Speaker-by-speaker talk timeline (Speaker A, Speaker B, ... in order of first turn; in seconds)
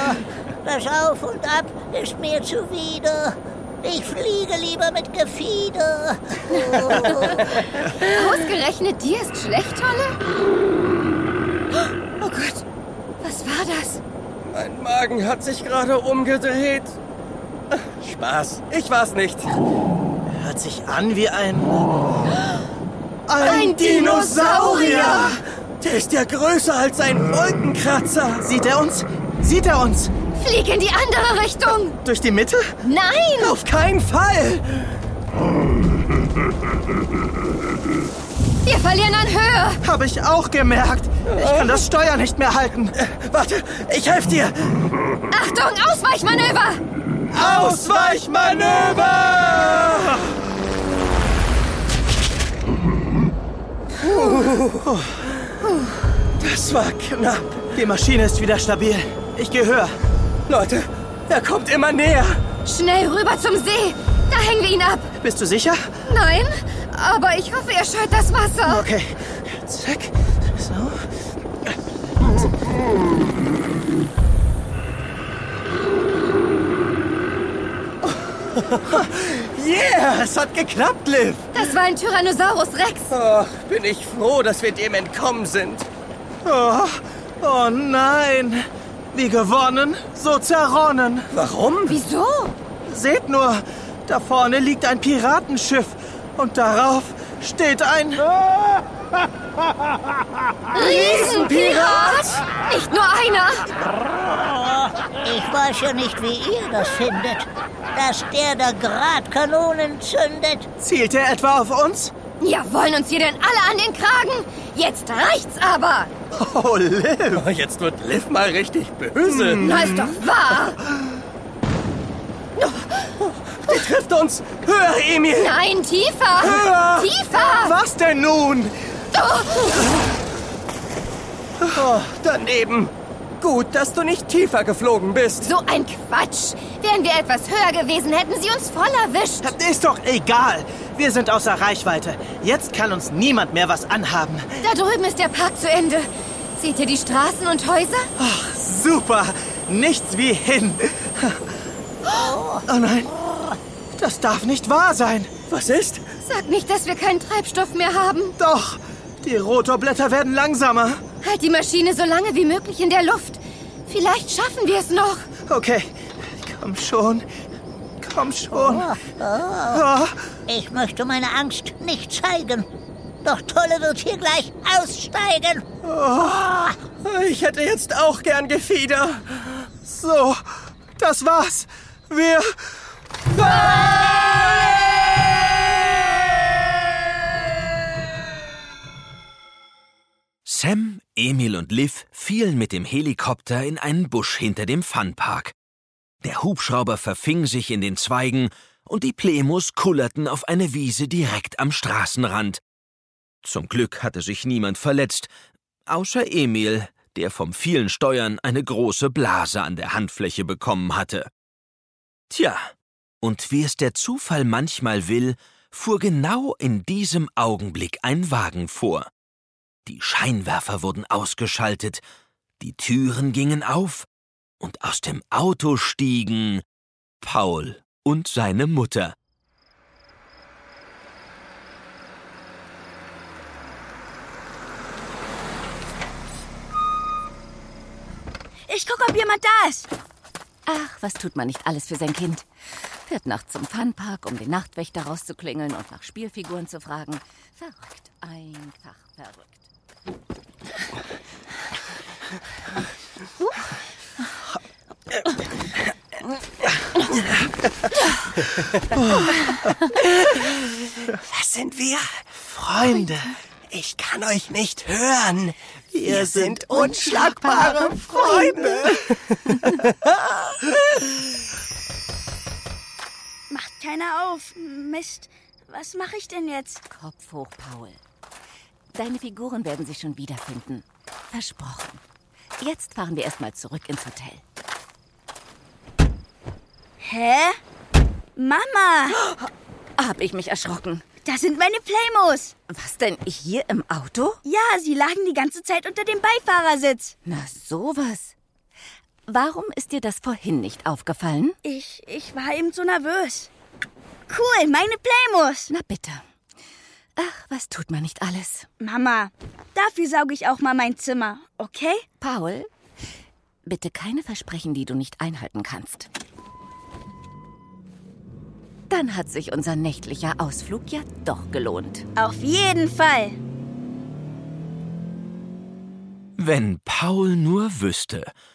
Speaker A: 0.6-7.5, 104.0-110.7, 152.1-153.6, 168.5-169.8, 170.5-172.7, 173.2-175.6, 176.4-176.7
Speaker B: 7.9-10.2, 11.8-12.6, 13.2-14.0, 23.4-25.4, 30.4-32.0, 32.8-33.6, 38.6-39.8, 45.3-46.8, 62.6-65.1, 66.0-68.8, 81.5-83.1, 91.9-92.5, 100.7-103.7, 112.4-116.1, 119.6-120.8, 122.6-123.1, 125.3-127.8, 129.1-129.9, 135.4-139.5, 144.6-148.1, 156.2-158.3, 161.2-165.3
Speaker C: 14.4-17.0, 17.7-19.6, 23.4-28.5, 33.4-34.9, 41.3-41.8, 43.0-44.8, 47.3-50.2, 54.0-54.9, 56.4-57.7, 60.5-62.4, 78.1-81.5, 83.1-85.9, 91.3-92.0, 100.8-102.2, 117.3-119.8, 123.6-125.5, 126.4-127.1, 131.7-135.5, 155.5-156.0, 177.0-179.7, 260.0-260.4, 261.2-262.2, 263.7-269.1, 269.8-270.7
Speaker D: 20.3-22.2, 23.3-25.4, 28.4-30.1, 32.0-32.7, 39.8-42.9, 47.3-48.2, 57.7-60.0, 65.2-66.0, 68.6-71.0, 86.4-91.3, 92.8-98.3, 100.8-101.8, 110.8-112.1, 116.3-117.4, 119.3-120.2, 127.3-128.8, 139.4-144.6, 148.2-151.4, 152.7-153.1, 153.9-155.3, 158.4-161.0, 165.5-167.2, 168.0-168.9, 169.7-170.2, 175.8-176.5, 179.8-182.6, 259.0-259.3, 262.5-263.4, 265.9-269.1
Speaker E: 190.4-195.5, 196.2-202.6, 203.4-205.3, 205.9-211.3, 212.3-219.1, 219.8-222.0, 222.6-224.1, 224.6-226.6, 227.2-229.1, 326.4-328.3
Speaker F: 238.7-239.9, 273.5-276.8, 287.0-287.6, 288.4-289.2, 291.2-292.6, 294.4-297.1, 301.6-303.5, 304.3-305.7, 308.8-312.0, 322.1-323.4
Speaker G: 240.7-242.4, 243.1-249.6, 276.9-278.0, 278.9-282.0, 282.6-284.4, 290.0-291.0, 292.7-294.4, 297.2-298.3, 299.3-301.6, 305.7-306.2, 307.2-308.7, 312.2-312.7, 313.6-316.1, 318.9-322.0